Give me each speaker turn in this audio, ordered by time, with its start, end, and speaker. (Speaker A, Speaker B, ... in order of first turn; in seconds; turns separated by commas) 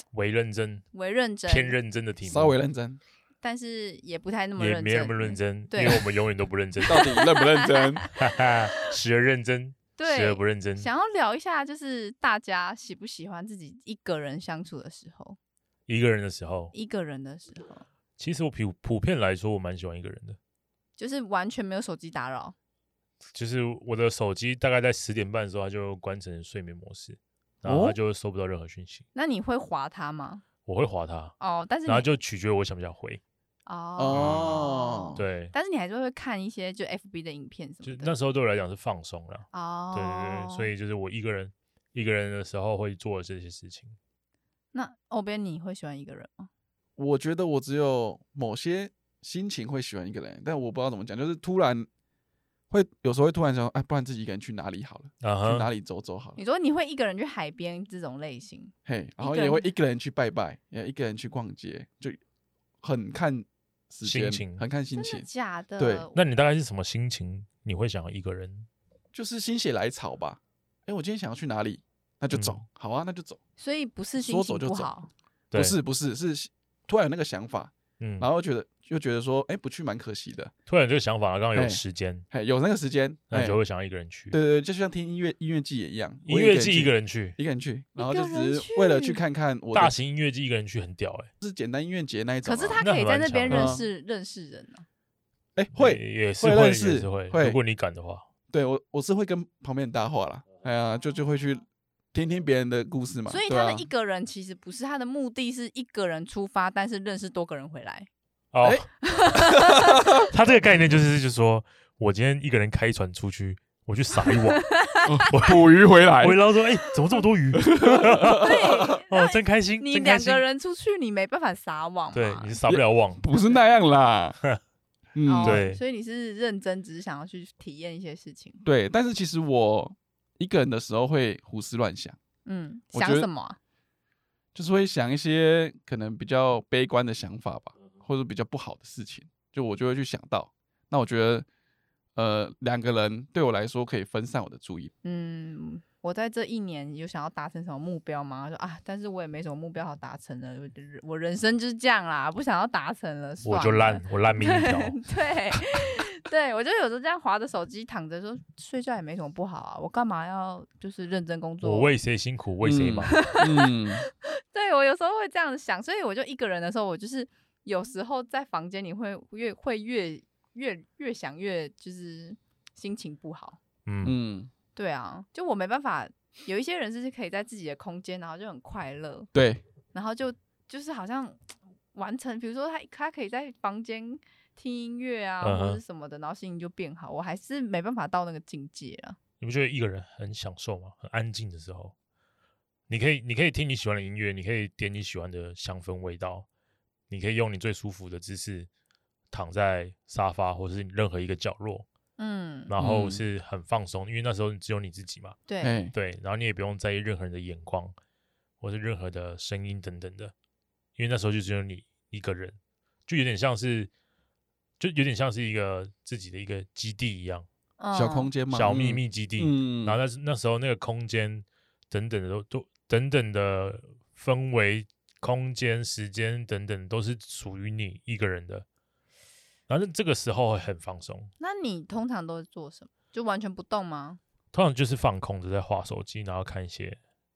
Speaker A: 0.1-0.9, Speaker B: 0.9-1.8, Speaker A: 1.5-2.5, Speaker C: 2.2-3.0, Speaker B: 3.4-6.1, Speaker A: 4.6-7.2, Speaker B: 6.8-8.2, Speaker C: 6.9-8.1, Speaker A: 8.2-10.9, Speaker B: 10.0-15.4, Speaker A: 15.9-16.7, Speaker B: 16.7-17.9, Speaker A: 18.2-20.4, Speaker B: 21.0-22.6, Speaker A: 23.3-29.1, Speaker C: 27.6-28.0, Speaker B: 29.1-30.4, Speaker A: 30.7-31.4, Speaker B: 31.4-32.1, Speaker A: 31.9-33.2, Speaker B: 33.7-38.1, Speaker C: 34.0-35.2, Speaker A: 34.1-35.5, Speaker A: 37.8-44.0, Speaker B: 39.5-40.7, Speaker B: 44.7-46.5, Speaker C: 47.0-51.9, Speaker C: 52.7-56.4, Speaker A: 55.2-55.7, Speaker B: 56.4-59.7, Speaker C: 58.9-62.2, Speaker C: 62.8-65.3, Speaker A: 64.0-64.6, Speaker B: 64.9-66.2, Speaker C: 65.8-66.1, Speaker A: 66.2-68.7, Speaker C: 69.1-73.4, Speaker A: 72.3-72.6, Speaker B: 73.6-75.1, Speaker C: 74.2-74.9, Speaker C: 75.5-80.5, Speaker A: 78.0-78.3, Speaker A: 80.7-82.2, Speaker C: 81.5-83.6, Speaker A: 83.3-84.4, Speaker C: 84.3-89.9, Speaker A: 86.3-87.4, Speaker B: 88.0-89.2, Speaker A: 89.7-91.3, Speaker C: 91.4-92.8, Speaker B: 92.4-94.9, Speaker A: 92.8-93.8, Speaker C: 93.5-93.8, Speaker C: 95.6-97.6, Speaker A: 95.8-98.2, Speaker C: 98.5-103.9, Speaker B: 103.3-108.1, Speaker A: 108.5-108.9, Speaker C: 108.6-110.2, Speaker B: 109.0-110.3, Speaker A: 110.3-114.7, Speaker B: 114.2-115.3, Speaker C: 115.1-116.4, Speaker A: 115.3-120.4, Speaker C: 117.6-118.9, Speaker B: 118.2-122.6, Speaker A: 122.1-123.2, Speaker C: 122.7-124.4, Speaker C: 125.1-125.6, Speaker B: 125.3-128.6, Speaker A: 125.4-125.8, Speaker C: 128.6-132.2, Speaker B: 132.4-133.6, Speaker C: 132.9-133.3, Speaker C: 134.6-141.5, Speaker C: 142.2-144.9, Speaker B: 145.0-161.9, Speaker A: 153.4-155.0, Speaker A: 161.6-163.2, Speaker C: 162.6-164.0, Speaker B: 163.1-173.6, Speaker A: 173.9-174.2, Speaker C: 174.0-174.5, Speaker B: 174.8-179.3, Speaker C: 179.3-179.6, Speaker B: 179.9-189.2, Speaker A: 185.4-185.8, Speaker A: 189.4-191.9, Speaker A: 192.9-196.5, Speaker A: 197.1-198.7, Speaker A: 199.3-201.9, Speaker B: 202.2-202.7, Speaker A: 202.7-205.4, Speaker C: 202.8-203.2, Speaker B: 205.5-205.7, Speaker C: 205.6-205.9, Speaker A: 205.9-207.9, Speaker A: 208.6-210.3, Speaker A: 211.0-213.9, Speaker A: 214.8-217.5, Speaker B: 217.8-218.3, Speaker C: 217.9-220.0, Speaker A: 218.5-228.7, Speaker A: 229.7-231.3, Speaker B: 231.4-234.2, Speaker A: 234.5-237.0